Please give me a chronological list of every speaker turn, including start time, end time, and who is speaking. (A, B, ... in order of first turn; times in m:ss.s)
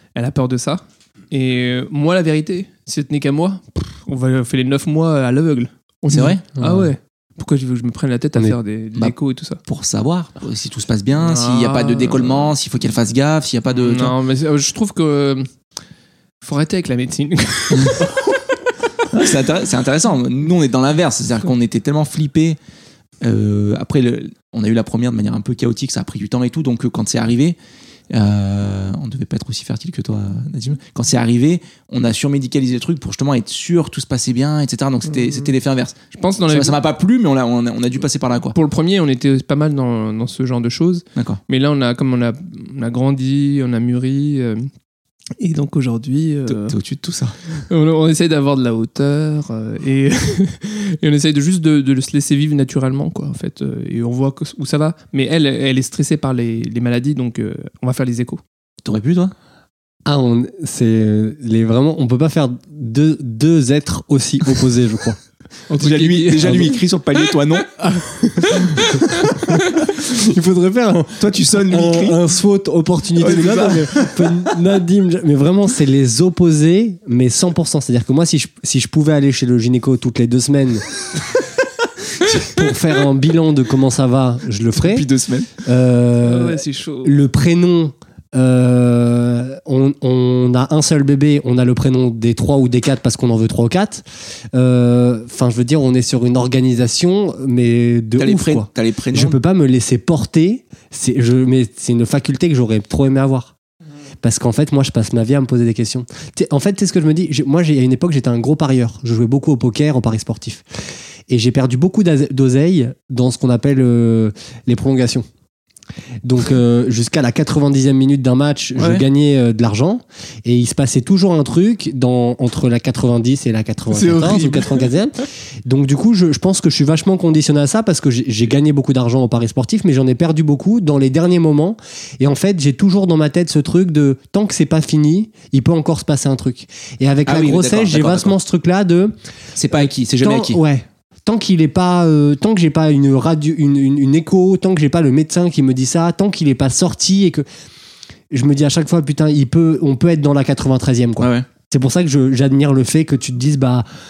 0:00.1-0:09.6 A
0:06.1-0:06.4 B
0:06.6-0:06.9 C
0:09.6-0:14.1 B
0:11.2-0:12.5 A
0:13.7-0:15.5 A
0:16.4-0:18.3 A
0:17.8-0:18.0 B
0:19.1-0:22.6 B
0:23.2-0:27.6 B
0:28.1-0:36.0 B
0:35.1-0:35.5 A
0:36.1-0:36.8 A
0:36.5-0:38.5 B
0:38.5-0:44.7 A
0:41.1-0:41.4 B
0:45.4-0:46.8 A
0:46.5-0:47.4 B
0:47.6-0:58.4 A
0:58.8-0:59.3 B
1:00.0-1:05.2 C
1:05.7-1:06.7 A
1:05.8-1:07.8 B
1:06.4-1:06.7 C
1:07.9-1:20.9 C
1:08.5-1:09.8 A
1:11.2-1:12.2 B
1:13.2-1:14.5 B
1:22.3-1:25.0 C
1:24.8-1:25.5 B
1:25.6-1:43.5 C
1:26.2-1:27.1 A
1:38.2-1:39.4 B
1:44.2-1:50.6 C
1:51.3-1:55.3 C
1:56.2-2:19.1 C
1:58.8-1:59.0 B
2:03.9-2:04.9 A
2:17.2-2:18.3 B
2:19.6-2:20.6 B
2:19.7-2:27.4 C
2:28.3-2:33.8 C
2:31.2-2:31.4 B